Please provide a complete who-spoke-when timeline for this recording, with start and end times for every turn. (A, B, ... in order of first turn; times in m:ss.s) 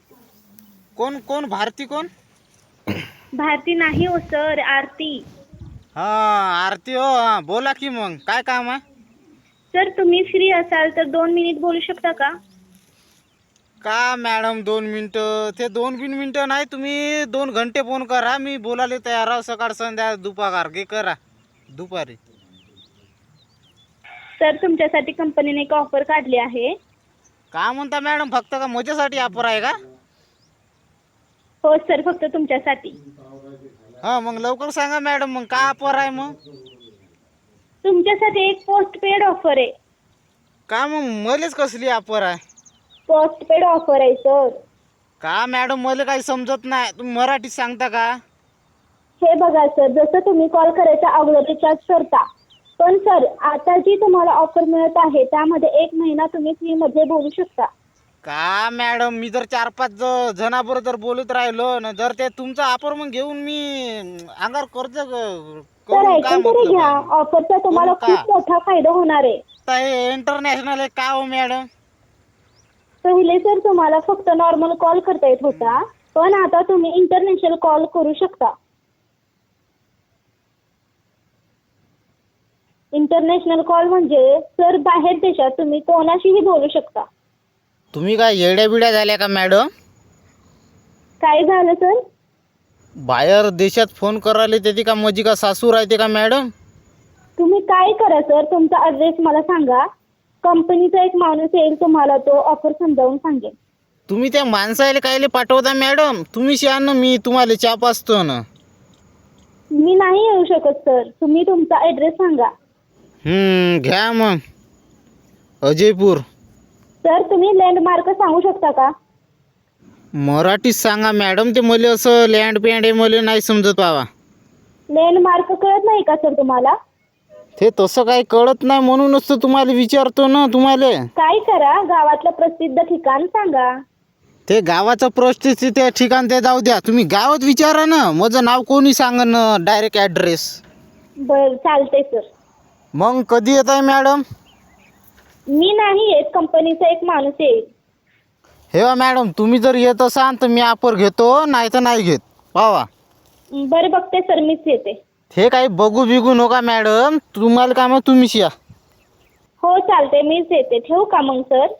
0:01.0-0:02.1 A
0:03.4-0:05.2 B
0:06.0-0:08.8 A
0:09.7-0:12.3 B
0:13.8-0:21.2 A
0:21.7-0:22.2 A
0:24.4-0:26.7 B
0:27.5-0:29.7 A
0:31.6-0:33.0 B
0:34.0-0:36.4 A
0:37.8-0:39.7 B
0:40.7-0:42.4 A
0:43.1-0:44.6 B
0:45.2-0:48.1 A
0:49.2-0:52.2 B
0:52.8-0:57.7 B
0:58.2-1:07.1 A
1:05.9-1:09.4 B
1:07.7-1:08.2 A
1:09.7-1:11.7 A
1:13.0-1:18.5 B
1:15.5-1:15.8 A
1:22.9-1:27.0 B
1:27.9-1:29.6 A
1:31.2-1:32.0 B
1:33.1-1:36.5 A
1:37.4-1:39.8 B
1:40.4-1:43.5 B
1:44.1-1:48.4 A
1:49.8-1:52.5 B
1:53.2-1:54.4 A
1:55.6-1:56.2 A
1:57.0-1:58.9 B
2:00.2-2:04.0 A
2:04.9-2:06.7 B
2:07.6-2:11.0 A
2:11.2-2:13.7 B
2:14.5-2:20.5 A
2:21.2-2:22.2 B
2:23.0-2:24.2 A
2:25.5-2:27.6 B
2:28.7-2:32.9 A
2:33.5-2:35.0 B
2:35.3-2:38.5 A
2:39.6-2:41.7 B